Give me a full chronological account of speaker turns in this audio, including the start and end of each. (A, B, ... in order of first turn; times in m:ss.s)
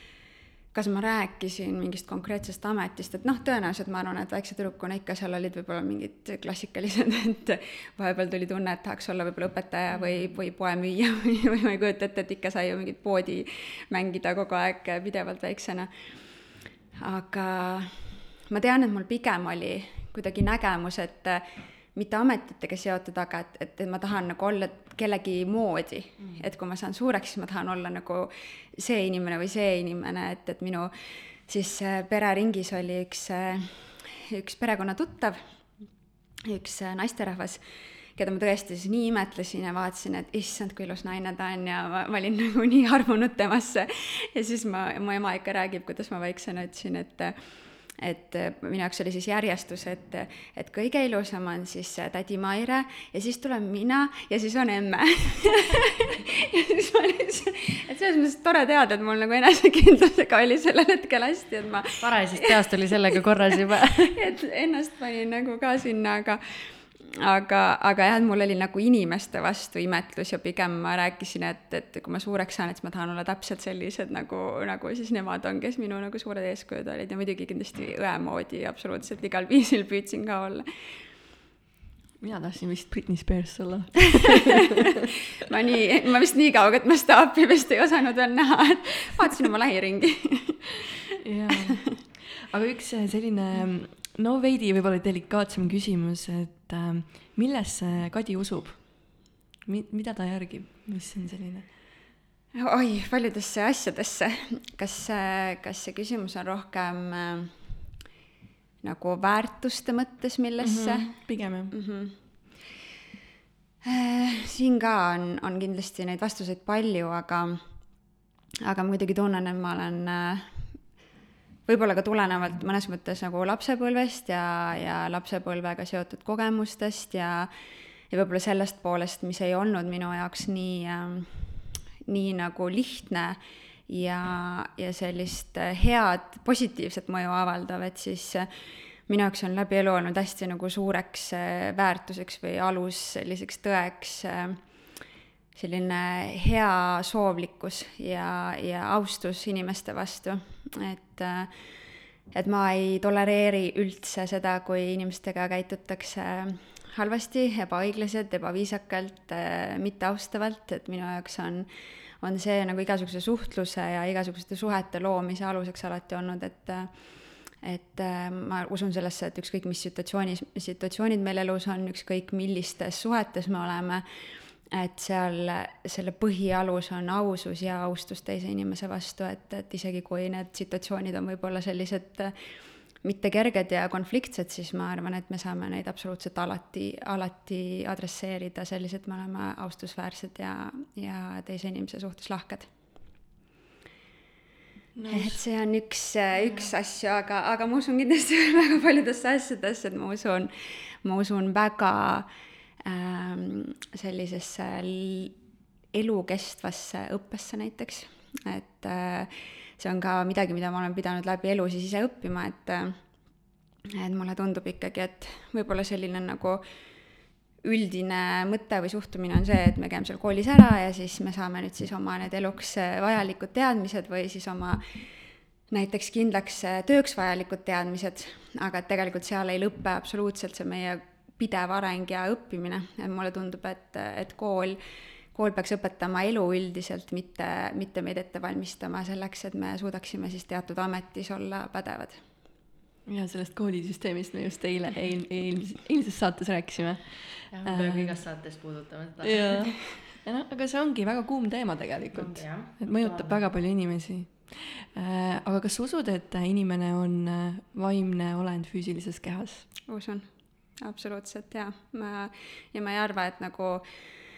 0:00.7-0:15.9 A
0:17.0-0:30.9 A
0:31.5-0:35.4 A
0:36.5-0:37.6 A
0:38.2-0:47.4 A
0:48.0-1:20.7 A
1:02.0-1:04.2 B
1:22.2-1:24.9 C
1:25.4-1:30.9 A
1:31.2-1:39.1 C
1:39.7-1:41.7 C
1:42.6-1:47.5 A
1:48.8-1:52.2 A
1:50.6-1:51.7 C
1:53.8-1:57.6 A
1:58.6-2:00.6 A
2:01.7-2:07.5 A
2:08.1-2:11.5 A
2:12.1-2:18.5 A
2:19.1-2:24.6 A
2:25.6-2:31.5 A
2:32.3-2:41.7 A
2:42.2-2:46.9 A
2:47.6-2:54.0 A
2:54.7-3:02.3 A
3:03.0-3:12.7 A
3:15.0-3:15.4 C
3:15.1-3:22.3 A
3:22.8-3:25.4 A
3:25.9-3:33.0 A
3:34.0-3:36.6 A
3:37.6-3:44.8 A
3:45.7-3:54.8 A
3:55.3-4:02.2 A
4:03.1-4:08.2 C
4:07.5-4:10.0 B
4:09.2-4:19.7 C
4:12.1-4:13.4 B
4:19.9-4:20.3 A
4:20.8-4:23.8 A